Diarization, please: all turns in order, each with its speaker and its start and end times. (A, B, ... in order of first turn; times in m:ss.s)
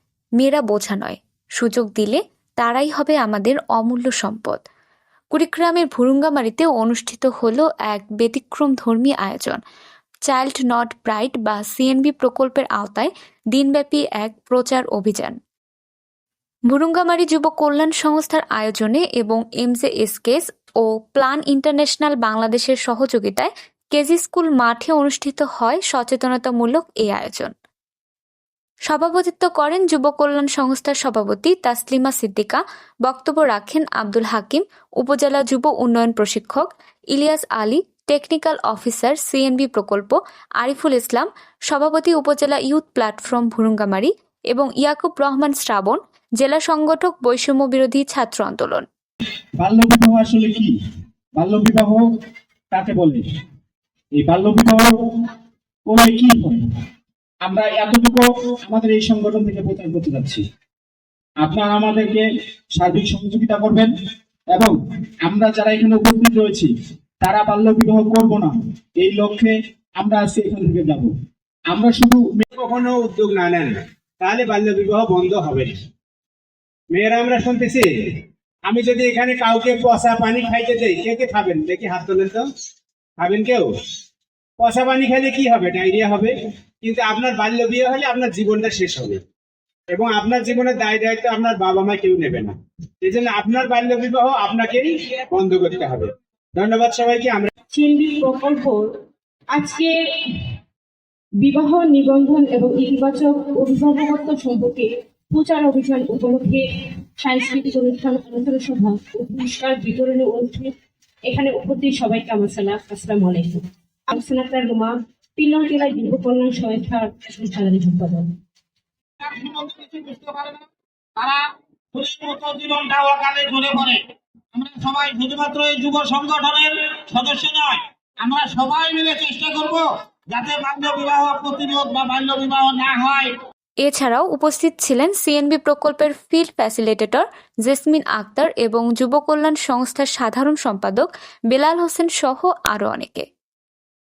0:00.4-0:04.6 A
0:05.3-0:09.6 A
0:10.3-0:15.4 A
0:16.7-0:27.5 A
0:28.9-0:48.8 A
0:49.6-0:50.7 B
0:51.4-0:52.0 B
0:52.7-0:53.2 B
0:54.2-0:54.9 B
0:55.9-0:56.6 B
0:57.4-1:00.4 B
1:01.4-1:03.9 B
1:04.5-1:06.7 B
1:07.2-1:11.1 B
1:11.7-1:12.4 B
1:12.5-1:15.7 C
1:16.9-1:17.9 C
1:18.7-1:22.5 C
1:23.2-1:23.7 C
1:24.6-1:29.2 C
1:29.9-1:37.5 C
1:37.7-1:38.9 D
1:39.5-1:40.4 D
1:41.4-1:46.6 D
1:47.2-1:50.7 D
1:51.3-1:58.3 D
1:59.2-2:04.0 E
2:04.5-2:13.3 E
2:13.8-2:23.2 A